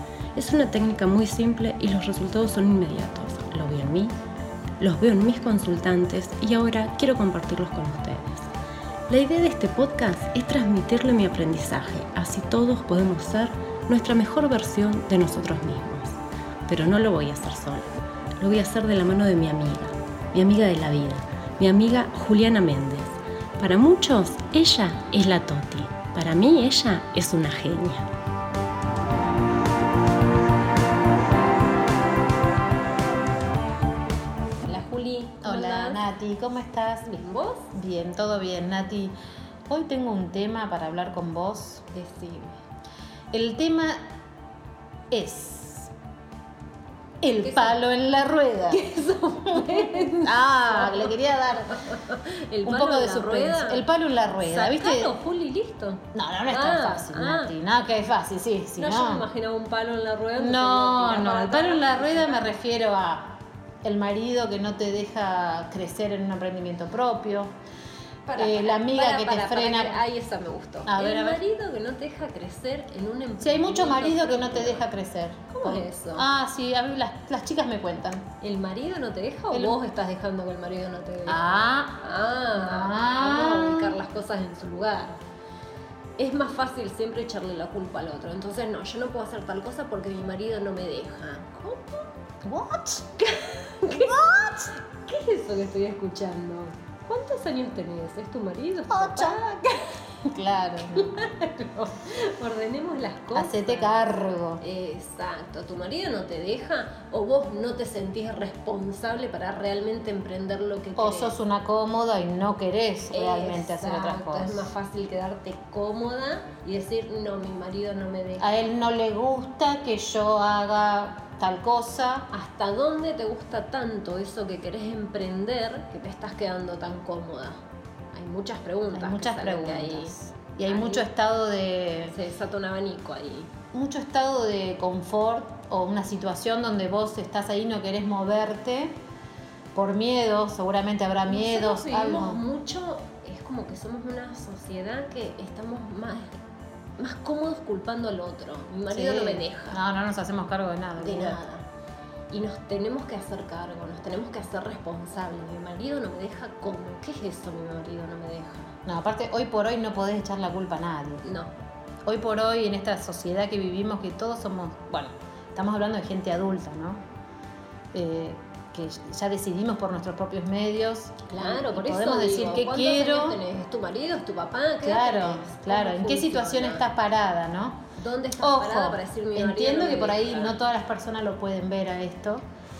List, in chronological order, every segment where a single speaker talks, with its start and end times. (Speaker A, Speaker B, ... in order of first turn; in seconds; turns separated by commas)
Speaker A: 0.3-4.2, Speaker A: 4.8-8.5, Speaker A: 9.1-28.1, Speaker A: 34.6-36.0, Speaker B: 35.4-37.2, Speaker A: 37.1-37.7, Speaker B: 37.7-39.1, Speaker B: 39.7-41.8, Speaker A: 41.9-42.6, Speaker B: 43.3-44.0, Speaker B: 45.1-45.9, Speaker B: 47.2-48.8, Speaker A: 47.4-47.8, Speaker A: 48.7-53.9, Speaker B: 49.5-51.8, Speaker B: 52.6-55.1, Speaker A: 54.4-57.5, Speaker B: 56.1-59.3, Speaker A: 58.8-62.6, Speaker B: 60.4-67.5, Speaker A: 68.2-74.8, Speaker B: 68.4-70.0, Speaker B: 70.8-71.4, Speaker B: 73.4-78.3, Speaker A: 75.5-76.3, Speaker A: 78.4-81.4, Speaker B: 79.5-79.8, Speaker B: 81.3-82.0, Speaker A: 82.0-85.2, Speaker B: 82.5-84.0, Speaker A: 86.2-92.1, Speaker B: 92.4-93.1, Speaker A: 93.2-94.2, Speaker B: 93.9-94.7, Speaker A: 94.8-100.1, Speaker B: 98.9-99.4, Speaker B: 100.2-101.1, Speaker A: 101.0-104.0, Speaker B: 103.3-104.6, Speaker A: 104.6-111.4, Speaker B: 111.0-114.7, Speaker A: 113.1-118.6, Speaker B: 118.4-122.3, Speaker A: 122.3-127.6, Speaker A: 128.1-131.1, Speaker B: 128.9-132.2, Speaker A: 132.1-133.5, Speaker B: 133.7-139.0, Speaker B: 139.7-142.4, Speaker A: 141.3-146.3, Speaker A: 147.0-149.8, Speaker B: 148.9-151.4, Speaker A: 151.0-151.7, Speaker A: 152.3-158.8, Speaker B: 158.9-161.2, Speaker A: 161.2-161.5, Speaker B: 162.1-167.0, Speaker B: 167.9-173.4, Speaker A: 171.3-176.9, Speaker B: 174.8-177.8, Speaker A: 178.0-180.6, Speaker B: 178.4-182.4